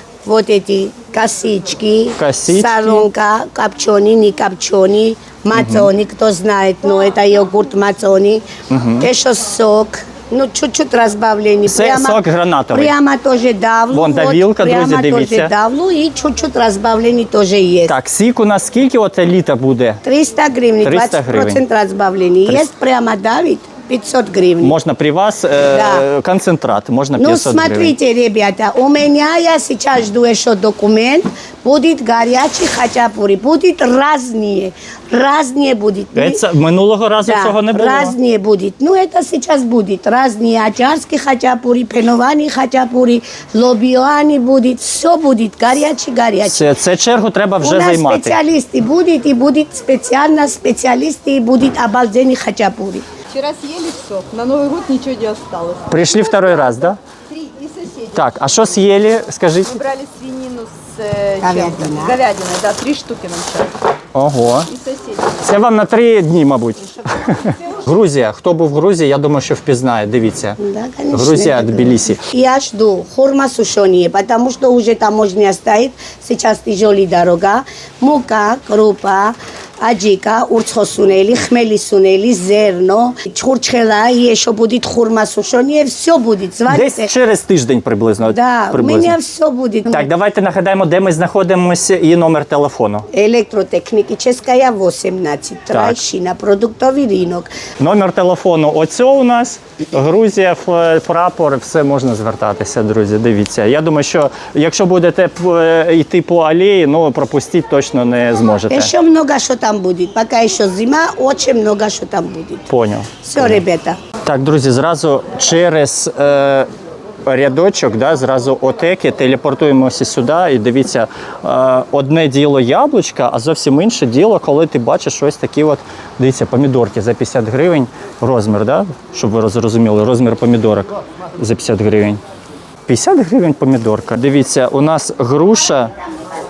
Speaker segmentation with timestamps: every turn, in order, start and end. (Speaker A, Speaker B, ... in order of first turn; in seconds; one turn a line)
Speaker A: 0.2-8.4
Speaker B: 2.2-3.1
Speaker B: 5.5-5.9
Speaker B: 8.7-9.1
Speaker A: 9.0-18.0
Speaker B: 11.7-12.9
Speaker B: 13.9-15.5
Speaker B: 17.9-20.0
Speaker A: 20.0-24.8
Speaker B: 20.8-21.6
Speaker B: 24.6-27.9
Speaker A: 25.7-26.1
Speaker A: 27.2-36.4
Speaker B: 36.1-38.2
Speaker A: 37.2-46.7
Speaker B: 46.4-48.4
Speaker A: 47.6-53.1
Speaker C: 53.3-56.5
Speaker B: 55.9-57.0
Speaker C: 57.3-58.5
Speaker B: 58.1-59.8
Speaker C: 59.7-63.8
Speaker A: 61.4-62.2
Speaker B: 64.1-64.7
Speaker C: 64.7-65.4
Speaker B: 65.4-70.6
Speaker A: 70.6-87.1
Speaker B: 71.1-72.2
Speaker B: 86.7-89.2
Speaker A: 88.3-90.1
Speaker B: 89.9-93.1
Speaker A: 93.1-97.5
Speaker B: 95.7-96.0
Speaker B: 97.8-108.9
Speaker A: 108.7-112.7
Speaker B: 112.7-113.6
Speaker A: 113.2-114.0
Speaker B: 114.2-116.7
Speaker B: 117.3-132.2
Speaker B: 132.9-135.9